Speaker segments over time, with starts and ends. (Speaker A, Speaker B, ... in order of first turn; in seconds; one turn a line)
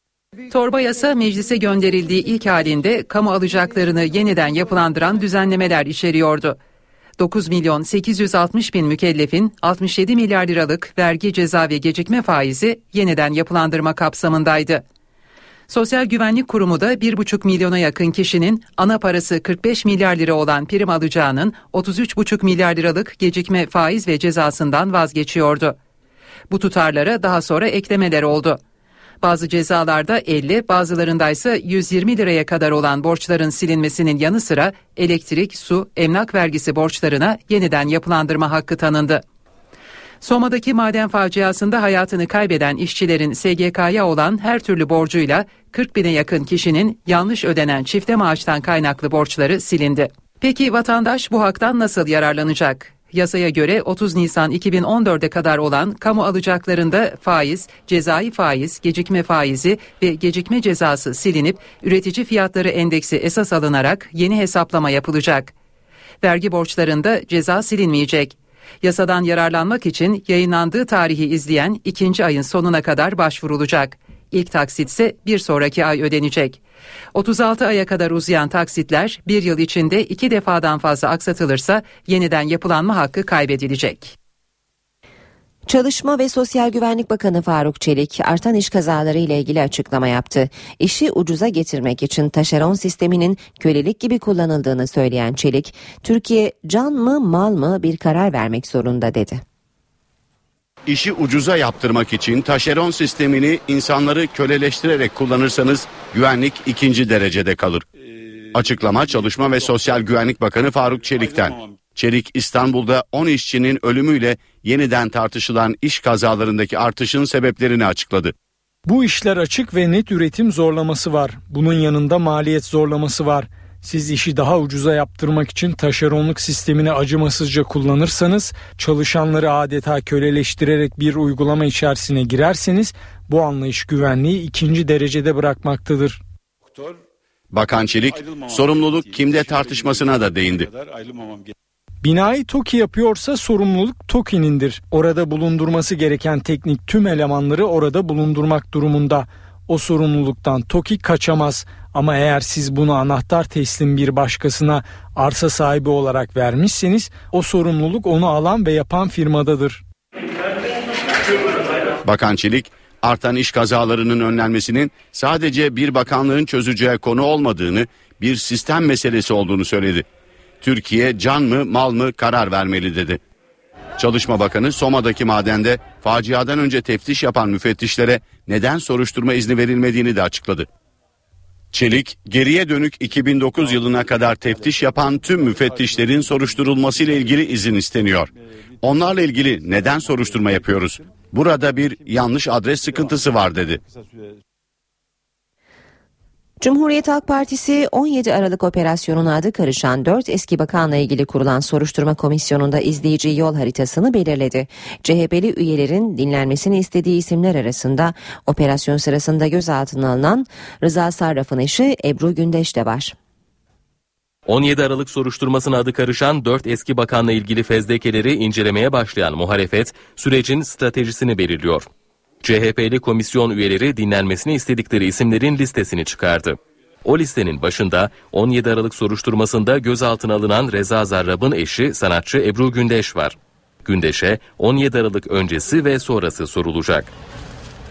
Speaker A: 0.5-6.6
Speaker A: 7.2-14.8
Speaker A: 15.7-25.8
Speaker A: 26.5-28.6
Speaker A: 29.2-39.2
Speaker A: 40.2-65.5
Speaker A: 66.2-76.6
Speaker A: 77.1-84.1
Speaker B: 85.7-99.4
Speaker C: 100.9-107.8
Speaker C: 108.5-118.3
Speaker D: 118.8-136.2
Speaker C: 137.5-140.7
Speaker D: 142.0-159.8
Speaker C: 162.0-170.1
Speaker C: 170.6-173.2
Speaker C: 174.0-180.7
Speaker C: 181.7-188.3
Speaker C: 188.8-193.8
Speaker B: 196.6-213.1
Speaker E: 214.4-221.9
Speaker E: 222.4-237.1